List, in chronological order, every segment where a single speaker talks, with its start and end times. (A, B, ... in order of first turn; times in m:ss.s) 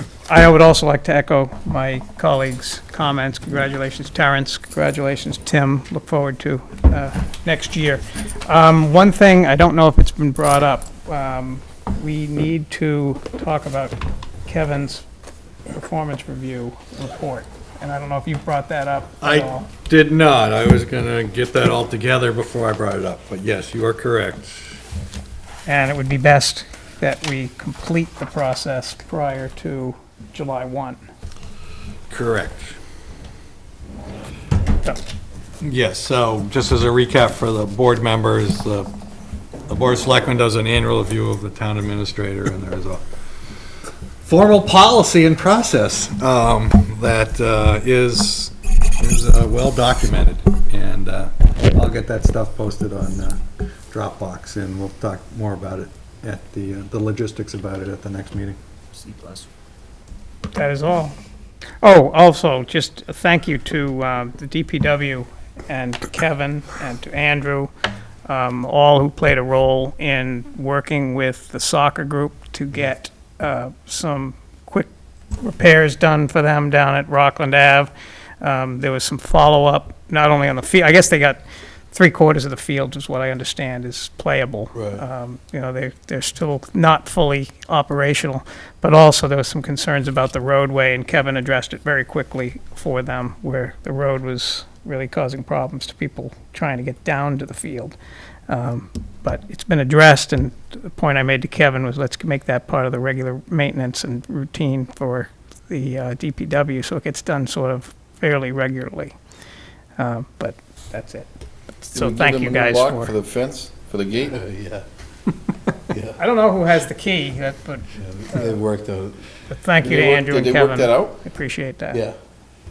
0:00.3-0:14.0 A
0:14.5-0:15.0 A
0:15.7-0:19.6 A
0:19.2-0:24.6 B
0:25.7-0:31.0 A
0:32.1-0:32.8 B
0:35.6-0:38.9 B
0:39.7-0:43.0 B
0:44.2-0:53.4 B
0:53.9-0:58.6 B
1:00.5-1:01.2 A
1:01.8-1:07.7 A
1:08.3-1:14.9 A
1:15.4-1:21.4 A
1:21.9-1:38.0 A
1:24.7-1:25.0 C
1:38.5-1:49.2 A
1:50.0-1:51.3 A
1:51.8-1:53.1 A
1:51.9-1:54.4 D
1:54.3-1:54.8 C
1:55.9-1:56.2 C
1:56.2-1:57.8 A
1:58.0-1:59.2 C
1:59.6-2:02.0 A
1:59.8-2:01.2 D